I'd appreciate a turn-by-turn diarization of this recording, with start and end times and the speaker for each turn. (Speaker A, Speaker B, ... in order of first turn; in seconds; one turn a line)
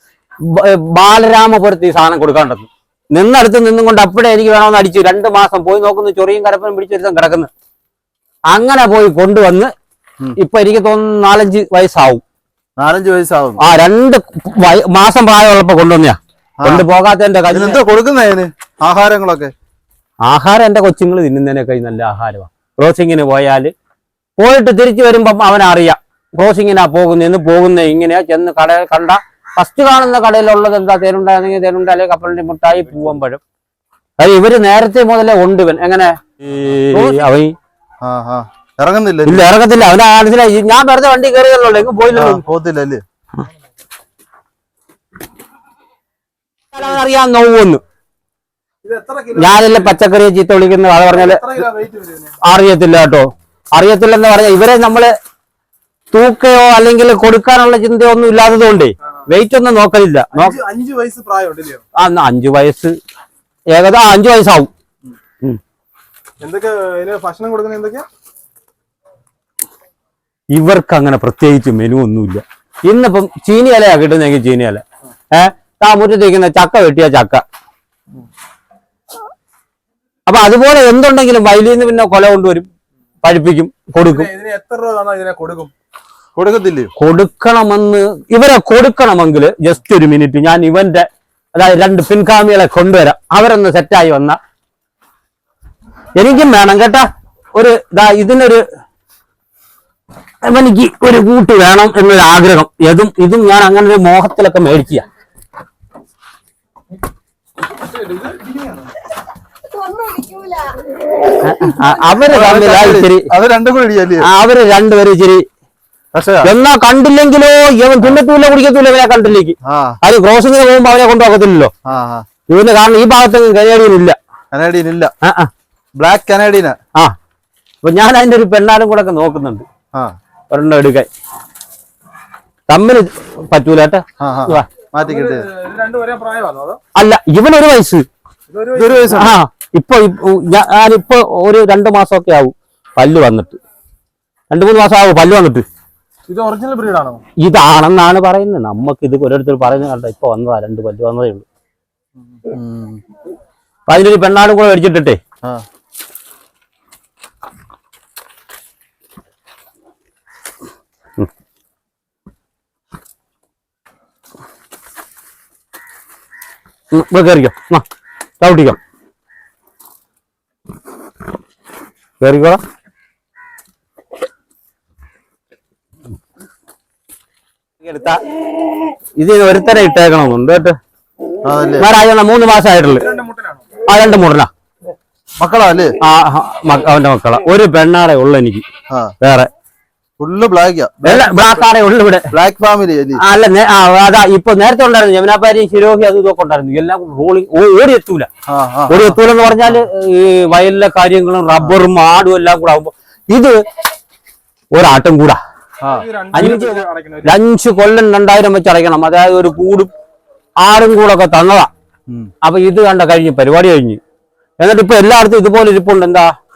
Speaker A: 0.4-7.5
Speaker A: 8.5-9.7
Speaker A: 10.4-12.2
Speaker B: 12.8-13.6
Speaker A: 13.6-17.8
Speaker B: 16.6-16.9
Speaker B: 17.5-19.5
Speaker A: 20.3-23.7
Speaker A: 24.4-33.4
Speaker A: 34.2-37.5
Speaker B: 38.0-39.5
Speaker A: 39.3-42.4
Speaker B: 42.1-43.0
Speaker A: 46.7-47.8
Speaker C: 48.8-49.9
Speaker A: 49.4-51.5
Speaker C: 51.1-52.4
Speaker A: 52.4-55.1
Speaker A: 56.1-60.6
Speaker C: 60.4-61.8
Speaker A: 62.0-62.9
Speaker A: 63.7-64.7
Speaker C: 66.4-68.1
Speaker A: 70.5-77.4
Speaker A: 80.3-82.7
Speaker A: 83.2-84.3
Speaker C: 84.0-85.7
Speaker B: 86.3-86.9
Speaker A: 87.0-94.4
Speaker A: 96.2-98.6
Speaker A: 100.4-105.1
Speaker C: 107.9-108.6
Speaker A: 111.3-113.3
Speaker B: 112.3-114.3
Speaker A: 114.2-115.5
Speaker B: 116.1-116.5
Speaker A: 116.4-121.7
Speaker B: 119.6-120.0
Speaker B: 121.8-122.3
Speaker A: 122.5-124.2
Speaker B: 124.5-125.1
Speaker A: 125.2-125.5
Speaker B: 126.0-126.8
Speaker A: 127.8-129.7
Speaker A: 130.5-131.1
Speaker A: 132.7-134.7
Speaker B: 134.2-135.5
Speaker C: 135.1-136.8
Speaker A: 136.9-138.1
Speaker C: 138.5-139.2
Speaker B: 138.8-139.4
Speaker A: 139.1-143.6
Speaker A: 144.5-145.6
Speaker C: 146.3-147.2
Speaker A: 147.4-151.5
Speaker B: 152.5-153.0
Speaker A: 153.9-155.2
Speaker A: 166.9-167.8
Speaker A: 168.4-168.8
Speaker A: 172.2-172.6
Speaker A: 177.8-178.2
Speaker A: 179.2-180.8
Speaker B: 181.4-181.9
Speaker A: 181.8-183.1
Speaker C: 183.0-183.7
Speaker A: 183.8-184.5
Speaker B: 185.4-186.0
Speaker A: 186.0-188.6
Speaker B: 188.9-189.1
Speaker A: 189.2-189.5
Speaker B: 190.2-191.7
Speaker A: 191.0-192.3
Speaker B: 192.3-193.2
Speaker A: 193.2-198.3
Speaker B: 198.5-199.8
Speaker A: 198.9-203.6
Speaker A: 204.7-205.4
Speaker C: 206.0-207.4
Speaker A: 206.3-209.9
Speaker A: 210.6-211.7
Speaker A: 212.4-214.0
Speaker A: 214.6-216.3